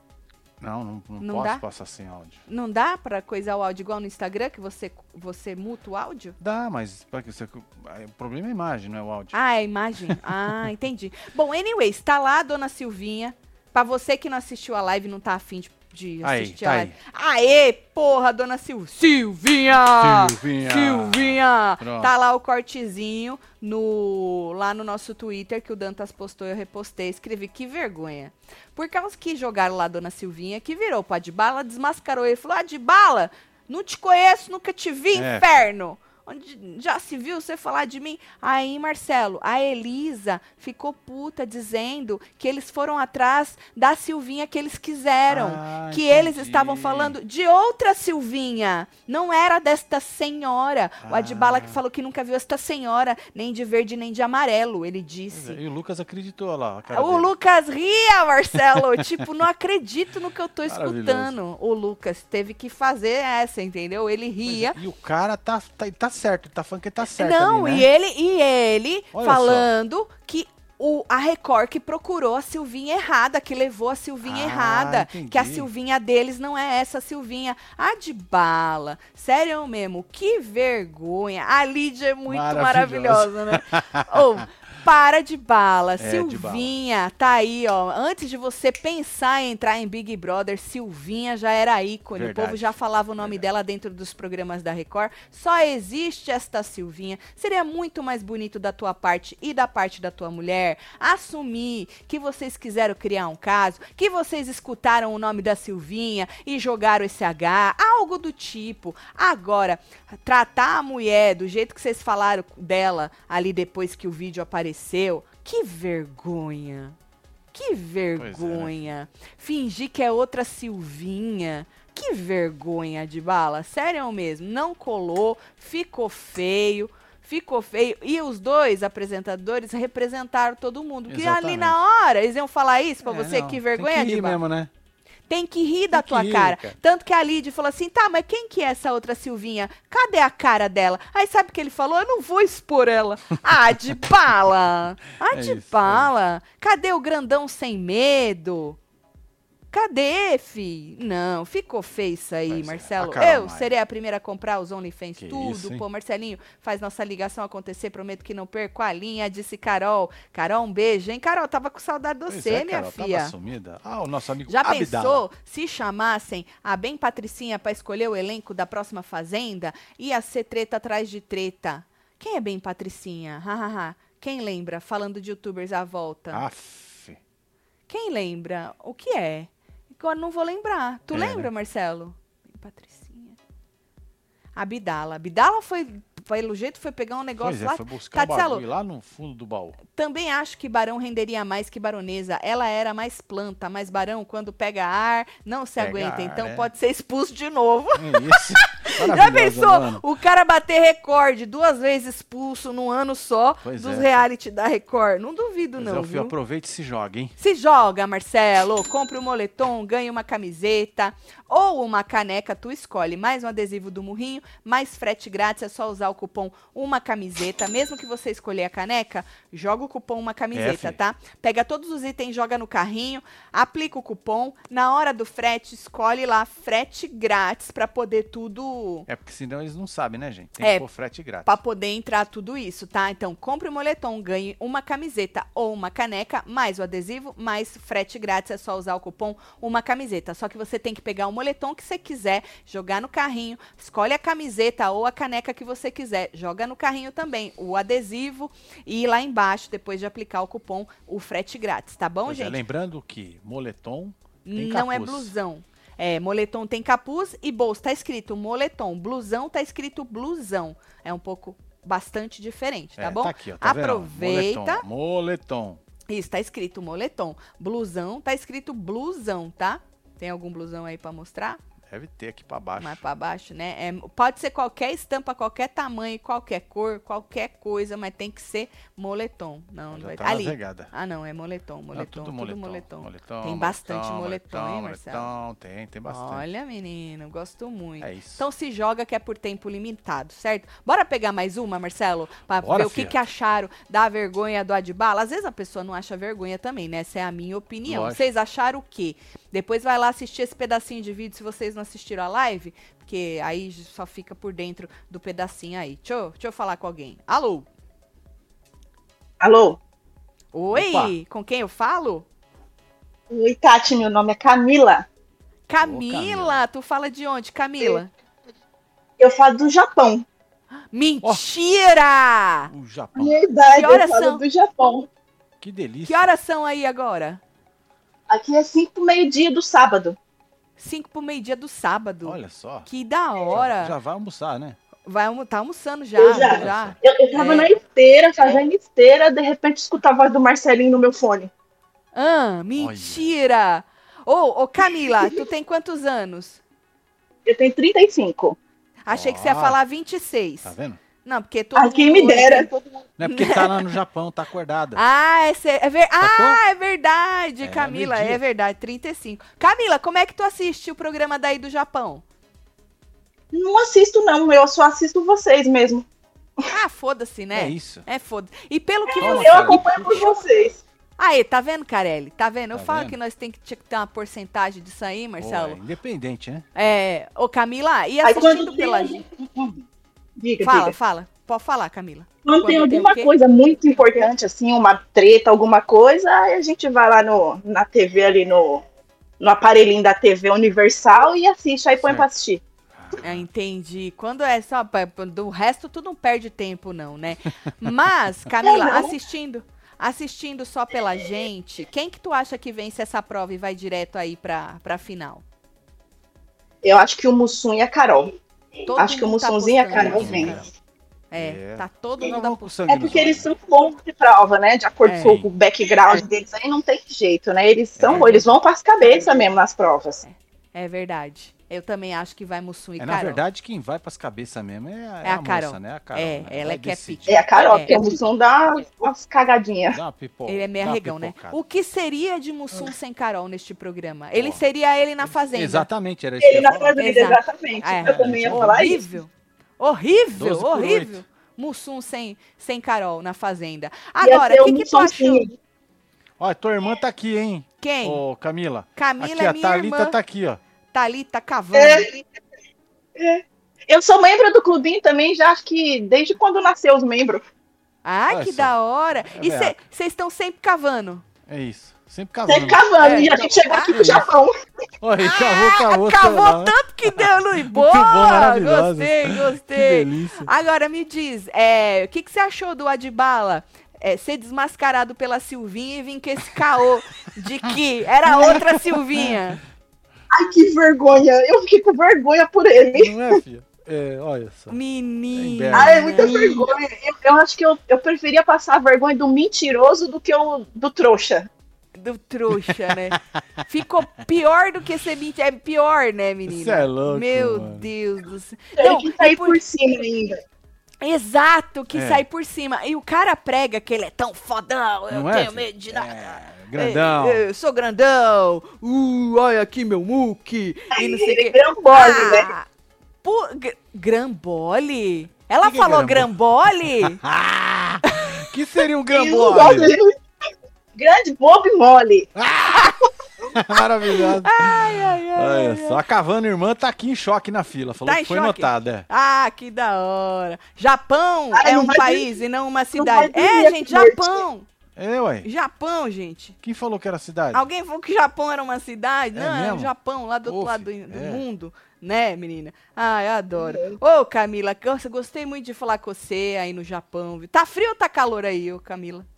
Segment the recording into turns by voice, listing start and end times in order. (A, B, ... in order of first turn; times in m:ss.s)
0:00.6-0:02.4 A
0:01.2-0:01.6 B
0:02.5-0:06.4 B
0:06.4-0:09.4 A
0:09.3-0:55.6 B
0:16.2-0:17.0 A
0:19.7-0:22.1 A
0:35.1-0:35.6 A
0:45.3-0:47.2 A
0:51.0-0:51.8 A
0:55.3-0:57.3 A
0:56.9-1:04.8 B
0:58.7-0:59.0 A
1:00.6-1:01.3 A
1:04.4-1:07.9 A
1:07.2-1:57.0 B
1:09.1-1:09.7 A
1:14.2-1:15.7 A
1:22.3-1:24.2 A
1:26.0-1:26.7 A
1:32.1-1:33.4 A
1:57.5-2:14.4 B
1:58.2-1:58.9 A
2:11.1-2:11.8 A
2:13.0-2:14.7 A
2:15.3-2:28.8 B
2:15.9-2:16.8 A
2:25.3-2:26.1 A
2:29.7-2:43.3 B
2:32.5-2:33.7 A
2:35.2-2:35.8 A
2:42.3-2:45.2 A
2:44.5-2:56.5 B
2:56.3-2:57.2 A
2:57.9-3:03.4 B
3:01.1-3:01.5 A
3:04.6-3:08.6 B
3:07.4-3:09.8 A
3:09.9-3:26.3 B
3:15.8-3:16.7 A
3:17.9-3:20.0 A
3:23.6-3:24.2 A
3:25.8-3:27.3 A
3:27.4-3:49.1 B
3:40.5-3:41.0 A
3:49.1-3:51.6 A
3:50.6-3:50.8 B
3:51.4-4:12.6 B
4:12.2-4:15.3 A
4:14.4-4:24.8 B
4:23.0-4:25.8 A
4:26.1-4:31.6 B
4:31.9-4:33.0 A
4:32.8-4:45.3 B
4:39.9-4:40.9 A
4:41.9-4:46.4 A
4:46.0-5:07.7 B
4:48.0-4:48.4 A
4:52.6-4:53.2 A
4:57.8-4:58.2 A
5:09.4-5:09.8 C
5:10.5-5:12.2 B
5:10.7-5:11.1 A
5:13.3-5:15.0 C
5:15.7-5:18.1 B
5:15.8-5:16.6 A
5:19.2-5:20.2 C
5:20.9-5:22.7 B
5:22.7-5:23.4 A
5:23.2-5:25.1 C
5:23.7-5:24.4 B
5:25.6-5:26.3 A
5:26.0-5:27.4 B
5:28.3-5:30.2 C
5:30.8-5:33.9 B
5:32.2-5:32.9 A
5:33.5-5:34.8 A
5:35.0-5:37.7 B
5:36.2-5:41.5 C
5:36.4-5:37.0 A
5:42.1-5:46.6 B
5:42.8-5:43.3 A
5:44.9-5:45.4 C
5:47.4-5:48.6 C
5:49.0-5:52.7 B
5:49.1-5:49.8 A
5:50.6-5:51.0 A
5:51.7-5:53.1 C
5:53.2-5:55.0 A
5:53.2-5:53.9 B
5:54.9-6:02.2 B
5:56.2-5:56.6 A
5:57.6-5:58.4 A
6:03.5-6:06.0 C
6:06.7-6:10.4 B
6:07.5-6:08.0 A
6:09.1-6:10.8 C
6:09.2-6:10.2 A
6:11.2-6:15.8 B
6:12.7-6:13.2 A
6:15.4-6:16.6 A
6:16.7-6:19.2 B
6:18.2-6:19.8 C
6:20.4-6:21.0 C
6:20.6-6:23.3 B
6:22.4-6:28.8 C
6:29.4-6:32.6 C
6:32.0-6:32.3 A
6:32.9-6:33.4 A
6:33.2-6:45.4 B
6:38.6-6:39.1 C
6:46.8-6:48.3 C
6:48.9-6:50.7 B
6:48.9-6:50.6 C
6:50.0-6:50.6 A
6:51.3-6:52.7 B
6:51.3-6:53.5 A
6:52.9-7:00.2 C
6:55.0-6:55.4 B
6:55.2-6:55.5 A
6:58.0-6:58.5 A
6:58.1-6:58.5 B
7:00.2-7:03.4 B
7:03.0-7:07.5 A
7:05.2-7:08.1 B
7:07.3-7:10.0 C
7:09.9-7:11.6 A
7:10.5-7:15.9 B
7:14.3-7:14.6 A
7:15.2-7:17.0 A
7:16.4-7:19.1 C
7:16.9-7:25.5 B
7:18.0-7:18.8 A
7:20.3-7:21.2 A
7:24.2-7:25.5 C
7:26.4-7:30.6 A
7:27.8-7:28.2 B
7:29.0-7:30.2 B
7:30.9-7:32.1 B
7:31.7-7:32.2 C
7:33.2-7:37.4 C
7:38.0-7:41.2 B
7:38.3-7:39.8 A
7:41.5-7:42.9 A
7:42.5-7:44.5 C
7:43.0-7:44.2 B
7:43.9-7:44.3 A
7:45.0-7:50.5 A
7:45.2-7:59.6 B
7:58.4-7:59.4 A
8:00.3-8:03.4 C
8:02.9-8:04.8 A
8:04.7-8:06.6 B
8:05.3-8:06.6 A
8:05.7-8:11.5 C
8:12.0-8:19.6 B
8:12.5-8:13.4 A
8:16.4-8:17.9 A
8:18.8-8:20.4 C
8:21.0-8:32.6 B
8:21.9-8:22.2 A
8:25.1-8:27.4 A
8:30.9-8:32.5 C
8:33.2-8:37.2 B
8:35.6-8:39.9 A
8:38.1-8:38.3 B
8:39.1-8:40.1 C
8:41.0-8:42.3 C
8:42.3-8:43.0 A
8:43.5-8:49.0 A
8:44.1-8:46.0 B
8:48.0-8:54.7 B
8:51.5-8:52.3 C
8:52.9-8:54.4 C
8:55.0-8:55.5 A
8:55.4-8:56.6 B
8:56.6-8:57.6 A
8:57.5-9:09.3 B
8:59.3-8:59.9 A
9:00.4-9:01.4 A
9:03.6-9:04.0 C